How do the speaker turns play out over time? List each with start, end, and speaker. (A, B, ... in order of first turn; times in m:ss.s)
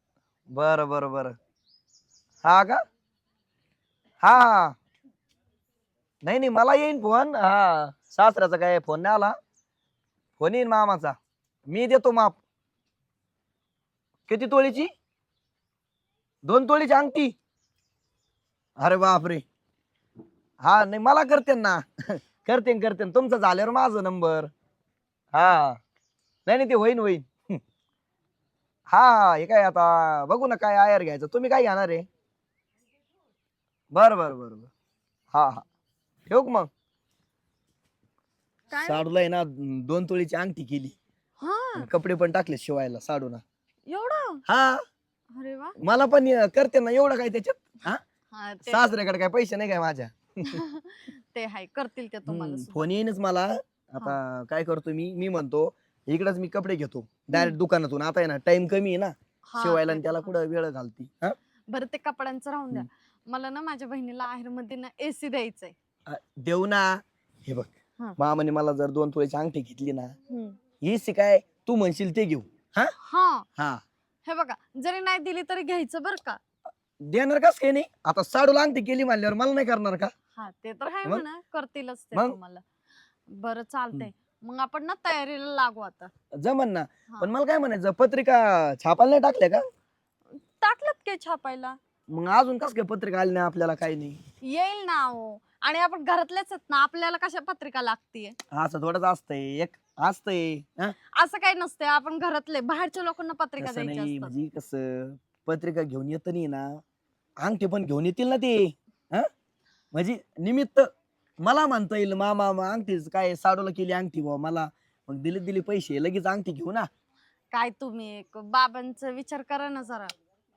0:00.5-0:01.3 A
0:02.4-0:02.8 A
0:04.2-0:04.8 A
0:06.2-0:09.4 A
0:10.4-0:11.2 A
0:11.7-0:12.4 A
0:14.3-0:14.9 A
0:16.4-0:17.3 A
0:18.8-0:19.4 A
0:20.6-0:24.5 A
0:25.3-0:25.8 A
0:26.4-0:27.6 A
0:28.9-0:32.1 A
0:33.9-0:34.7 A
0:35.3-0:35.6 A
0:36.3-0:36.7 A
0:38.7-0:39.0 B
0:38.8-0:40.9 A
0:41.4-0:41.9 B
0:41.8-0:43.4 A
0:43.9-0:44.4 B
0:44.5-0:44.8 A
0:45.3-0:45.8 B
0:45.8-0:48.0 A
0:48.3-0:48.8 B
0:48.7-0:50.6 A
0:50.5-0:52.9 B
0:52.3-1:01.4 A
0:59.5-1:00.3 B
1:01.7-1:05.7 B
1:06.1-1:10.1 A
1:10.3-1:10.6 B
1:10.8-1:12.9 A
1:13.0-1:13.4 B
1:13.6-1:13.8 A
1:14.2-1:16.4 B
1:17.1-1:20.1 A
1:20.4-1:22.6 B
1:23.3-1:26.1 B
1:26.4-1:29.7 A
1:30.6-1:31.8 B
1:32.1-1:34.2 A
1:34.4-1:38.4 B
1:38.5-1:40.9 A
1:41.2-1:44.3 B
1:43.6-1:46.8 A
1:47.4-1:49.3 A
1:49.9-1:50.9 A
1:51.4-1:56.9 A
1:57.5-2:00.1 B